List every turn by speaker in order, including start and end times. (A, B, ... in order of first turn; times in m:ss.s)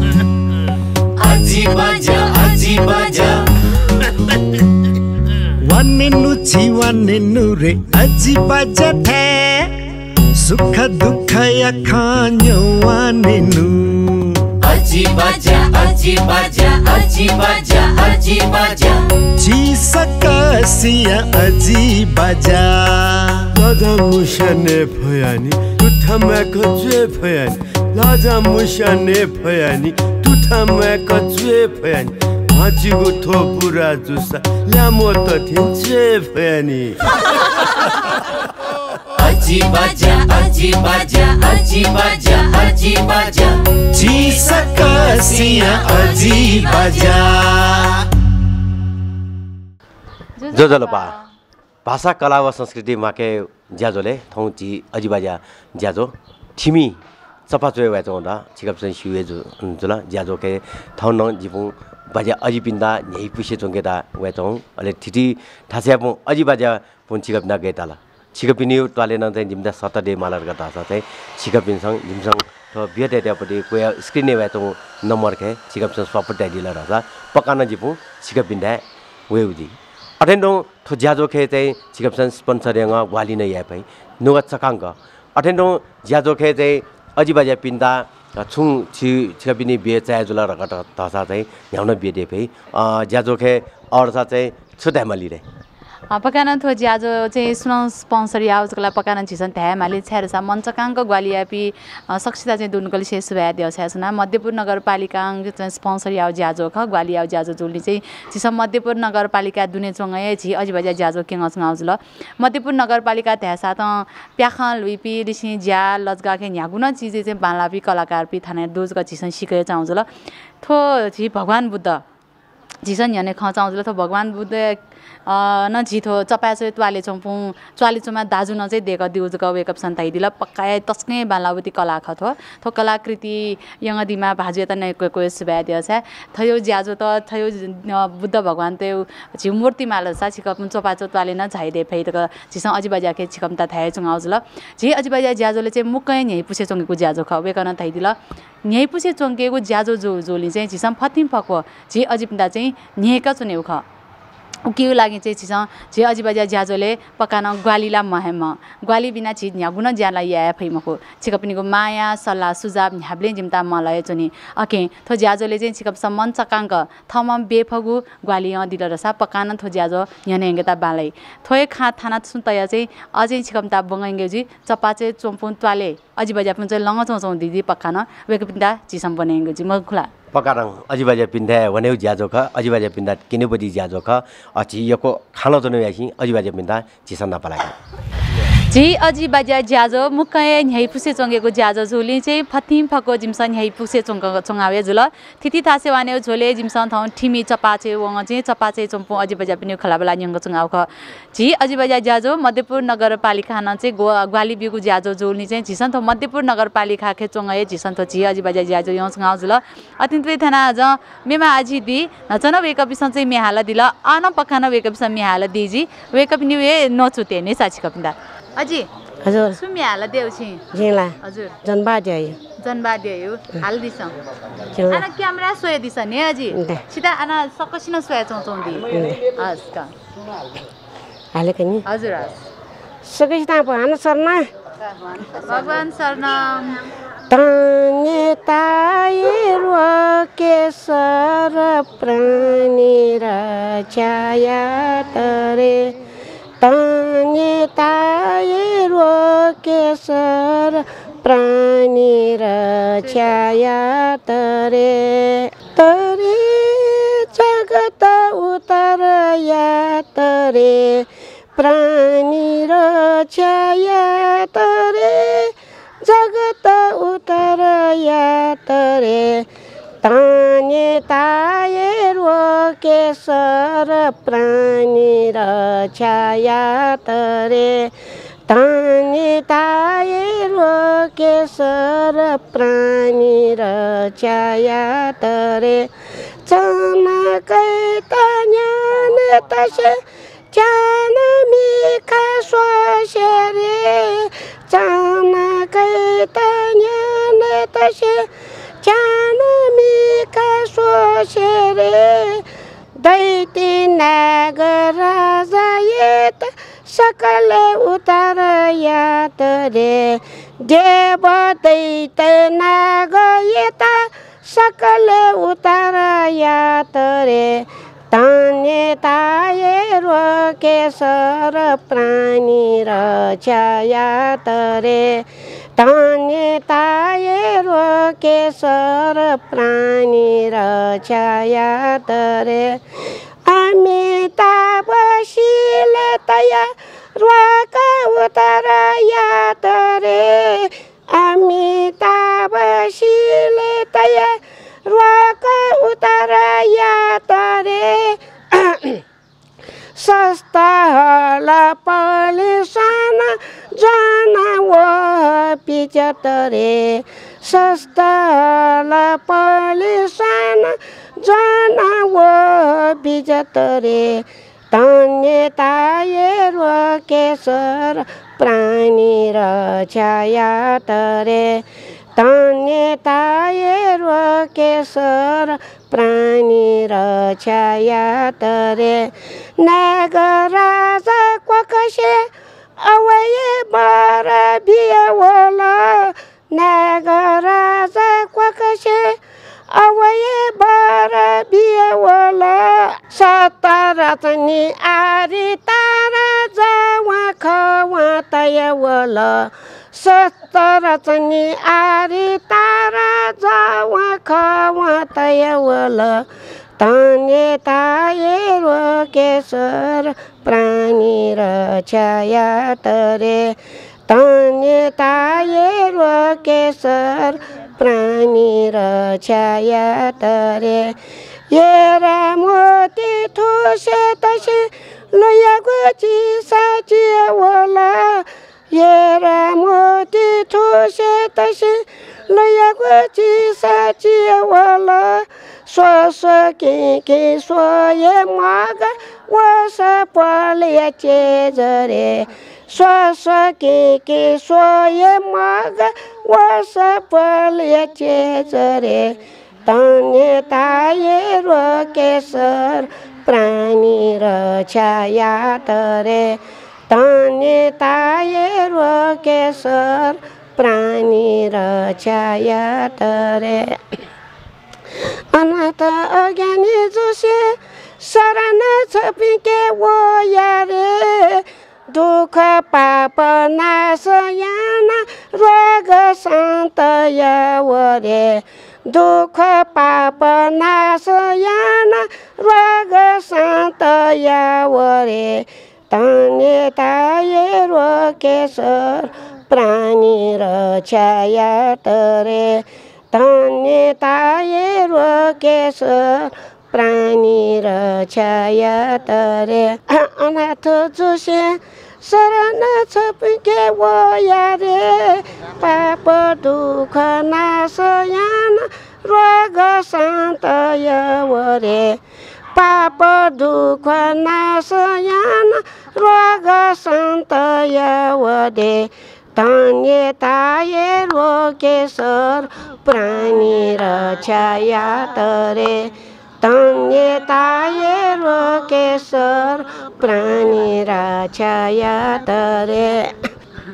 0:01.2-0:03.4 A
0:05.6-0:09.7 B
0:10.4-0:14.5 B
0:14.6-0:19.0 A
0:19.4-0:23.4 B
0:23.5-0:37.0 C
0:39.2-0:43.6 A
0:43.9-0:48.0 B
0:45.6-0:47.1 A
0:50.4-0:51.2 D
0:50.5-0:51.2 E
0:51.8-1:35.4 E
1:36.1-2:00.1 D
2:00.6-2:02.0 D
2:02.8-2:33.8 D
2:34.7-3:00.1 D
3:00.3-3:07.8 E
3:08.7-3:38.9 D
3:39.2-3:39.6 F
3:39.5-3:40.7 D
3:40.7-3:42.4 F
3:41.2-3:41.6 D
3:42.6-3:44.2 D
3:44.7-3:45.1 F
3:44.9-3:49.9 D
3:46.5-3:46.8 F
3:48.9-3:49.2 F
3:51.3-3:51.8 F
3:51.9-3:52.4 D
3:53.0-3:54.5 F
3:55.2-3:56.8 D
3:57.3-4:06.0 F
4:06.6-4:29.5 F
4:30.0-4:37.9 F
4:38.5-4:45.9 F
4:46.4-4:58.3 F
4:58.8-5:02.4 F
5:03.0-5:32.8 F
5:33.4-5:49.0 F
5:50.0-6:11.7 F
6:12.2-6:29.2 F
6:29.7-6:46.3 F
6:46.8-7:01.0 F
7:01.5-7:43.8 F
7:45.3-8:32.0 F
8:32.6-8:53.3 F